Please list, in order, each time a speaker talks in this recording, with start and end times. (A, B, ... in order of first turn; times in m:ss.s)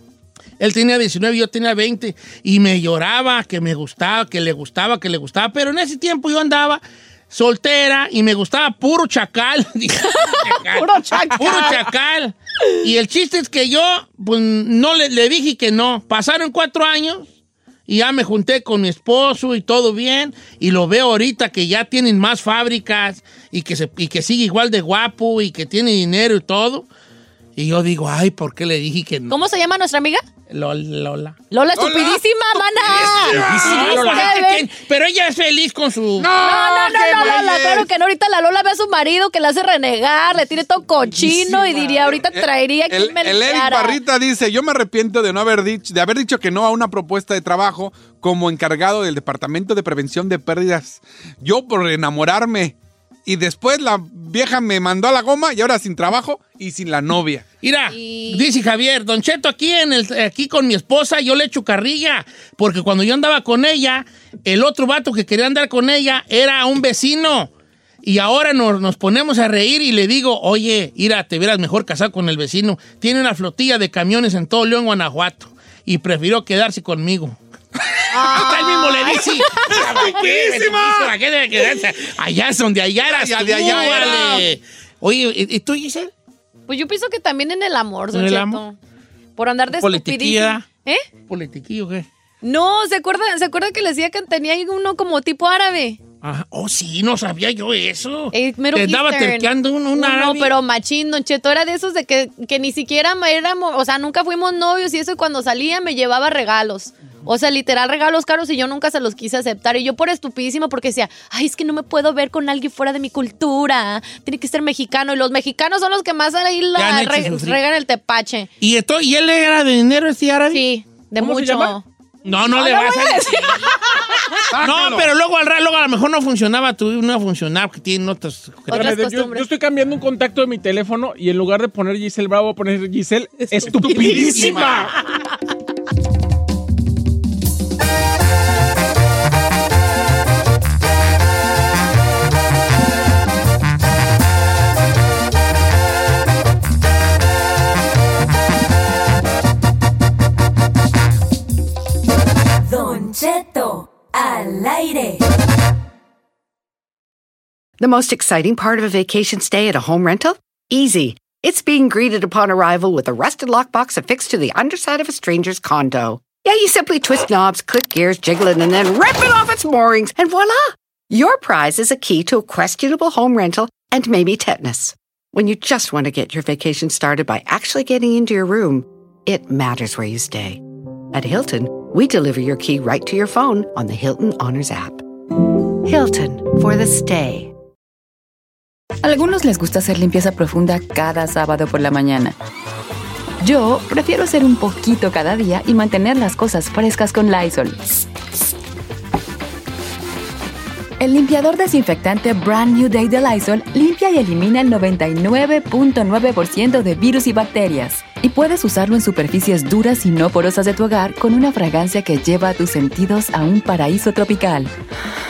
0:00.6-0:17.3 A
0:10.2-0:11.8 B
0:17.9-0:26.9 A
0:27.6-0:29.4 A
0:29.3-0:30.2 B
0:30.5-0:31.4 A
0:31.5-0:34.7 B
0:31.7-0:34.3 C
0:33.1-0:36.3 A
0:36.2-0:37.9 C
0:36.4-0:44.0 B
0:41.1-0:42.0 A
0:41.6-0:52.7 C
0:53.3-0:57.4 C
0:57.6-1:07.5 A
0:57.9-0:58.4 B
1:08.0-1:17.4 A
1:18.1-1:20.2 B
1:18.1-1:26.1 A
1:19.2-1:21.1 C
1:23.0-1:24.5 C
1:23.6-1:24.4 B
1:26.7-1:28.8 B
1:28.1-1:28.6 A
1:29.4-1:31.0 B
1:29.7-1:30.7 A
1:31.3-1:32.1 A
1:32.4-1:36.0 B
1:36.2-1:40.5 A
1:38.3-1:58.5 B
1:56.8-1:57.6 A
1:58.6-2:00.6 A
2:00.5-2:01.8 B
2:01.2-2:01.8 D
2:02.2-2:03.8 A
2:02.5-2:04.4 B
2:04.5-2:05.1 C
2:04.6-2:09.0 A
2:08.7-2:09.4 B
2:08.7-2:14.9 D
2:13.7-2:15.0 C
2:14.2-2:14.5 A
2:32.6-2:35.2 E
2:37.8-3:00.6 F
3:01.1-3:05.0 F
3:05.8-3:07.5 F
3:09.0-3:12.4 G
3:13.4-3:17.8 G
3:21.0-3:34.7 G